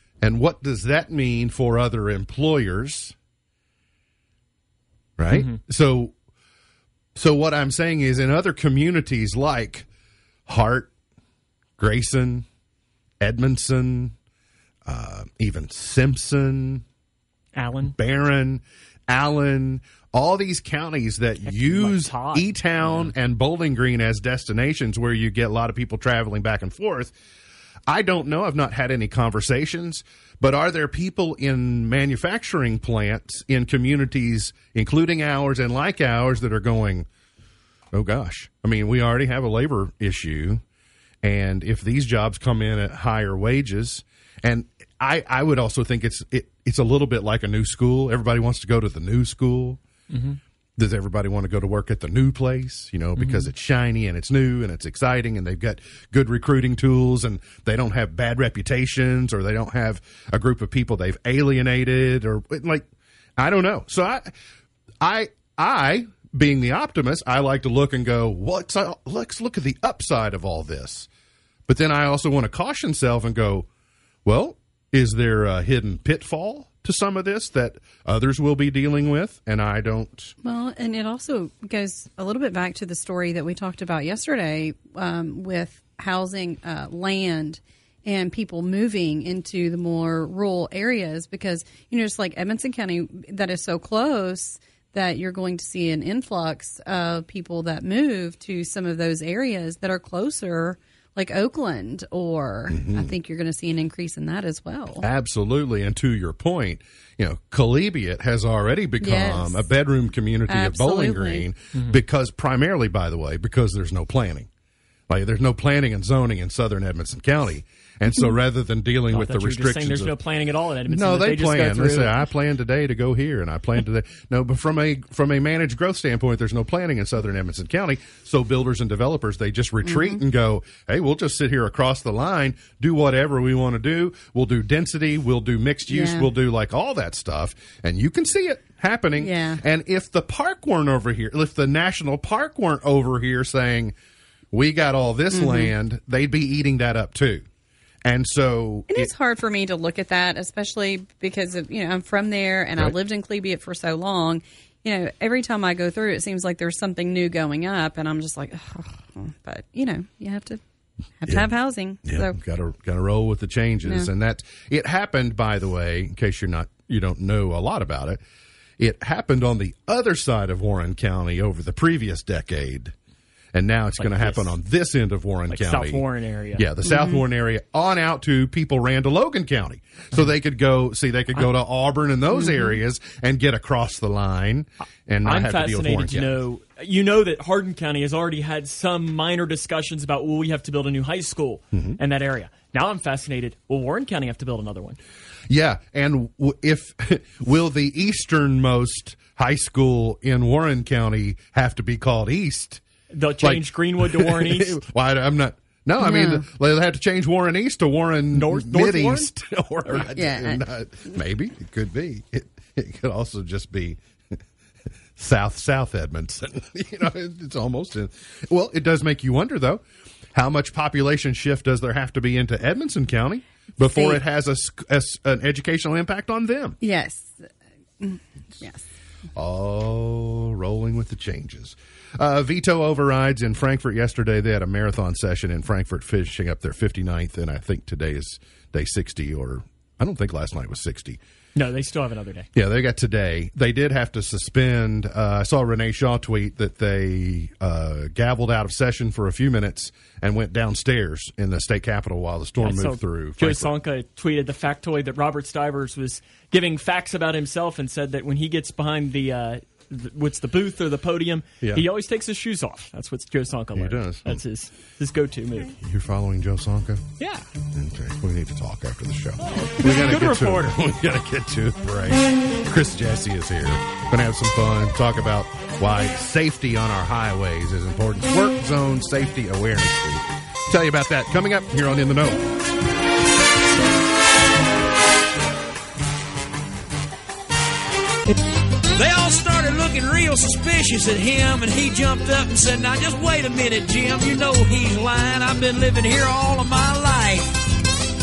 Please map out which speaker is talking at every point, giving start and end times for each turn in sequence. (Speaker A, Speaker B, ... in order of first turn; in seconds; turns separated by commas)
Speaker A: 0.2-3.1, Speaker A: 5.2-6.1, Speaker B: 5.3-5.6, Speaker A: 7.2-9.8, Speaker A: 10.5-10.9, Speaker A: 11.8-12.4, Speaker A: 13.2-14.1, Speaker A: 14.8-16.8, Speaker B: 17.5-17.9, Speaker A: 17.9-27.1, Speaker B: 21.4-23.1, Speaker A: 27.9-37.1, Speaker A: 37.9-40.6, Speaker A: 41.2-49.8, Speaker B: 50.1-50.4, Speaker A: 50.8-62.9, Speaker B: 53.1-53.5, Speaker A: 63.4-64.3, Speaker A: 65.0-71.1, Speaker A: 71.7-73.7, Speaker A: 74.2-80.3, Speaker C: 80.4-105.0, Speaker A: 102.7-103.1, Speaker A: 105.0-114.5, Speaker C: 109.0-109.7, Speaker C: 110.5-111.5, Speaker B: 111.7-112.0, Speaker A: 115.1-120.1, Speaker B: 119.1-122.2, Speaker A: 120.9-143.9, Speaker C: 129.8-130.2, Speaker C: 135.9-136.3, Speaker C: 139.2-139.6, Speaker A: 144.5-147.4, Speaker C: 145.3-145.7, Speaker A: 148.0-149.1, Speaker C: 148.9-160.6, Speaker C: 161.2-162.4, Speaker A: 161.3-168.2, Speaker C: 163.8-164.1, Speaker A: 168.8-172.9, Speaker A: 173.5-176.0, Speaker B: 174.0-174.6, Speaker B: 175.5-176.7, Speaker A: 176.6-186.4, Speaker C: 176.8-177.2, Speaker B: 185.2-195.0, Speaker A: 195.5-202.8, Speaker B: 203.1-204.8, Speaker A: 203.4-214.0, Speaker C: 206.0-206.4, Speaker B: 208.3-209.3, Speaker C: 210.1-211.2, Speaker A: 215.2-219.8, Speaker A: 220.3-226.8, Speaker C: 223.8-224.2, Speaker C: 226.8-227.5, Speaker C: 228.0-228.8, Speaker A: 229.3-241.2, Speaker B: 241.5-242.5, Speaker A: 242.5-253.7, Speaker B: 252.6-265.7, Speaker A: 263.8-264.4, Speaker A: 265.8-267.0, Speaker B: 267.2-267.4, Speaker A: 267.7-282.4, Speaker B: 269.6-270.8, Speaker D: 288.9-297.7